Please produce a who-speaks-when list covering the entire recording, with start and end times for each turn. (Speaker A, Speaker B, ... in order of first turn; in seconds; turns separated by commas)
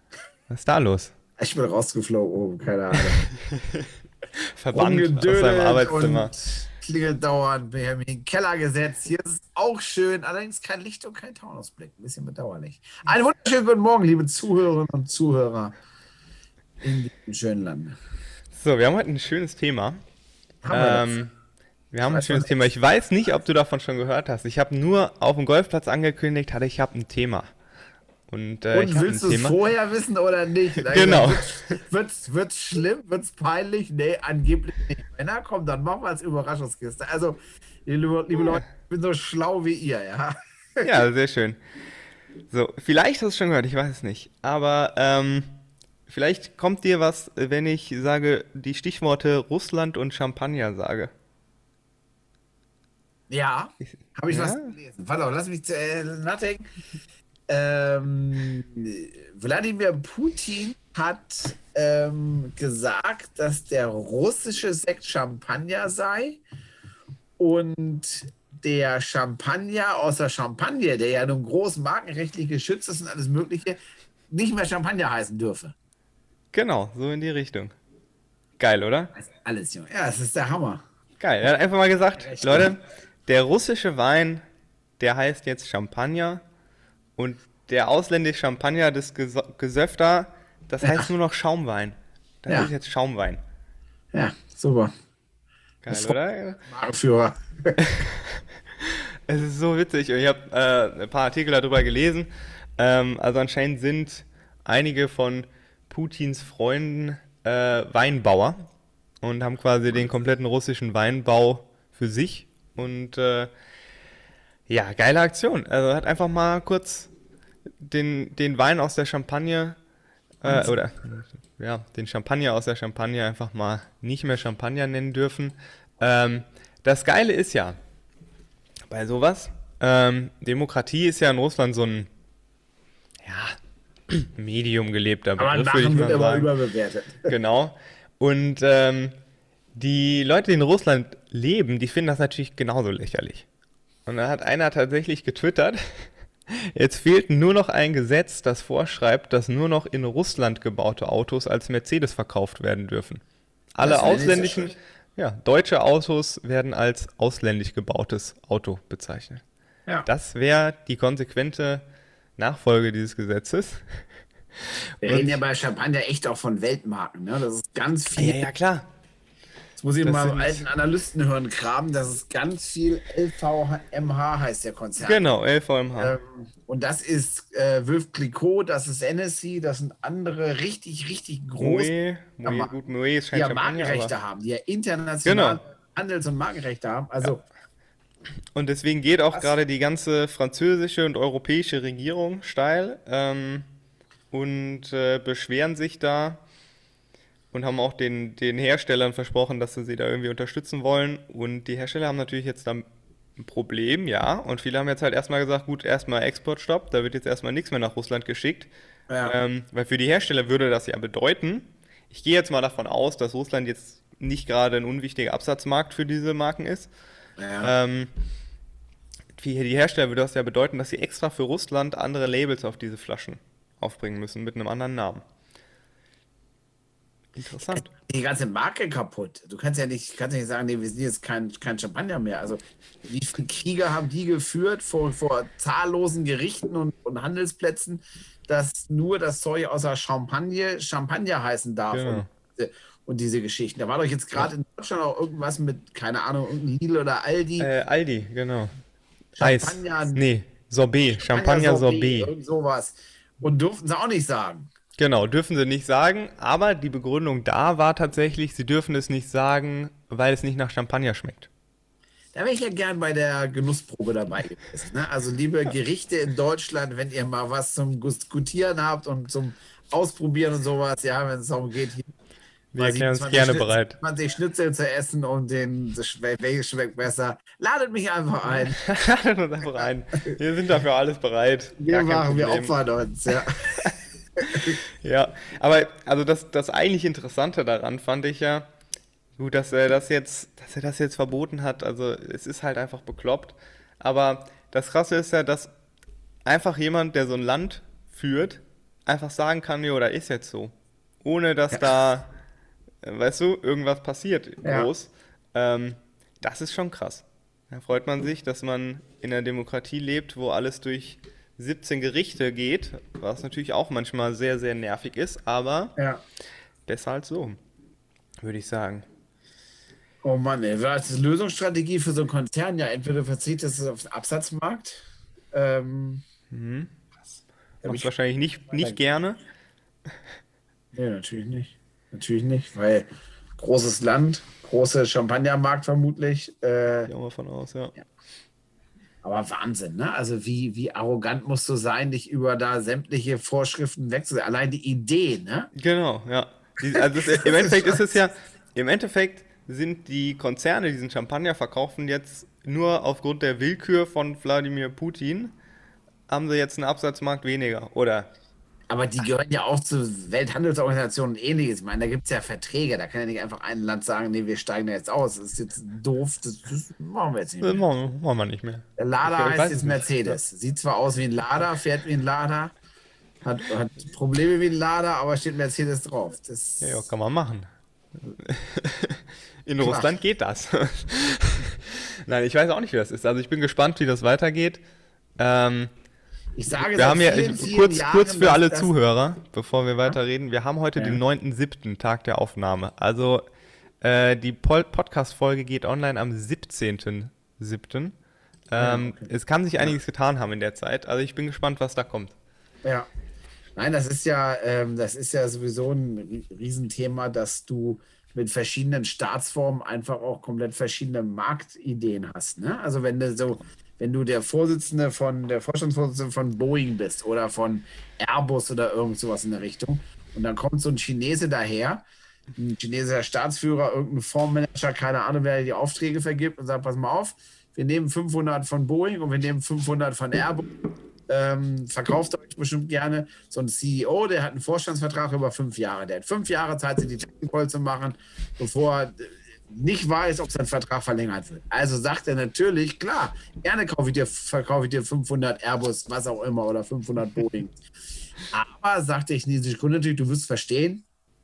Speaker A: 0.5-1.1, Speaker B: 1.4-3.2, Speaker A: 3.4-6.3, Speaker B: 4.7-15.8, Speaker B: 16.8-18.0, Speaker A: 18.5-20.0, Speaker B: 20.6-21.1, Speaker A: 20.7-21.3, Speaker A: 21.9-27.5, Speaker B: 22.1-22.7, Speaker A: 28.3-29.6, Speaker B: 28.7-41.0, Speaker A: 30.9-31.8, Speaker A: 40.8-41.6, Speaker A: 42.5-45.5, Speaker A: 46.1-51.1, Speaker B: 53.3-56.7, Speaker A: 54.3-54.7, Speaker B: 57.5-66.4, Speaker B: 67.4-73.8, Speaker B: 74.3-75.7, Speaker A: 76.5-77.7, Speaker A: 78.6-79.1, Speaker B: 79.2-80.8, Speaker A: 81.2-84.4, Speaker B: 82.2-82.7, Speaker A: 85.0-86.4, Speaker A: 87.2-93.4, Speaker B: 90.8-91.1, Speaker B: 94.1-94.9, Speaker A: 95.8-96.6, Speaker B: 95.9-97.8, Speaker A: 97.8-108.7, Speaker A: 109.2-113.5, Speaker A: 114.7-117.1, Speaker A: 117.8-119.8, Speaker A: 120.4-127.8, Speaker B: 120.5-120.7, Speaker A: 128.9-132.1, Speaker A: 133.2-133.6, Speaker A: 134.1-136.5, Speaker B: 135.4-137.3, Speaker A: 137.3-139.2, Speaker A: 139.8-143.5, Speaker A: 144.1-153.2, Speaker A: 153.8-159.4, Speaker B: 153.8-154.8, Speaker A: 160.1-161.8, Speaker A: 162.4-164.0, Speaker A: 165.0-165.4, Speaker B: 165.0-168.5, Speaker A: 168.2-168.9, Speaker B: 169.8-175.3, Speaker A: 170.0-170.7, Speaker A: 175.0-176.2, Speaker B: 176.0-181.9, Speaker A: 181.6-184.1, Speaker B: 182.4-182.7, Speaker B: 183.3-187.4, Speaker A: 185.2-185.6, Speaker A: 188.6-193.7, Speaker A: 194.3-196.4, Speaker A: 197.5-202.8, Speaker A: 203.4-208.7, Speaker B: 209.1-209.3, Speaker A: 209.2-216.9, Speaker B: 217.4-217.7, Speaker A: 217.6-218.1, Speaker A: 219.4-225.2, Speaker A: 227.4-227.9, Speaker B: 227.7-247.7, Speaker A: 241.9-242.3, Speaker A: 247.6-248.7, Speaker B: 249.4-250.2, Speaker A: 249.4-252.3, Speaker B: 251.2-254.7, Speaker A: 255.0-261.5, Speaker B: 262.3-272.1, Speaker A: 272.7-274.0, Speaker B: 272.8-278.8, Speaker A: 278.8-282.7, Speaker B: 279.8-280.3, Speaker B: 281.8-283.9, Speaker A: 283.8-288.7, Speaker B: 284.5-284.8, Speaker A: 289.4-295.7, Speaker A: 296.5-302.3, Speaker A: 303.0-315.9, Speaker B: 304.6-304.9, Speaker B: 316.0-316.2, Speaker A: 316.9-317.6, Speaker A: 318.4-319.1, Speaker B: 320.2-326.2, Speaker A: 326.5-326.9, Speaker A: 327.8-329.4, Speaker B: 327.8-328.1, Speaker B: 330.9-337.1, Speaker A: 337.1-337.9, Speaker B: 339.2-345.7, Speaker A: 345.8-355.5, Speaker B: 346.9-348.0, Speaker A: 356.3-358.3, Speaker B: 358.9-367.8, Speaker A: 367.6-370.4, Speaker B: 369.0-372.7, Speaker B: 373.4-377.1, Speaker A: 376.8-377.7, Speaker A: 378.4-384.8, Speaker B: 379.8-380.1, Speaker A: 385.4-385.9, Speaker B: 386.6-388.9, Speaker A: 386.8-393.4, Speaker B: 391.0-391.2, Speaker A: 394.0-398.1, Speaker A: 398.7-402.4, Speaker B: 398.8-399.3, Speaker B: 403.8-422.1, Speaker B: 422.6-430.7, Speaker B: 431.3-447.8, Speaker B: 448.5-451.0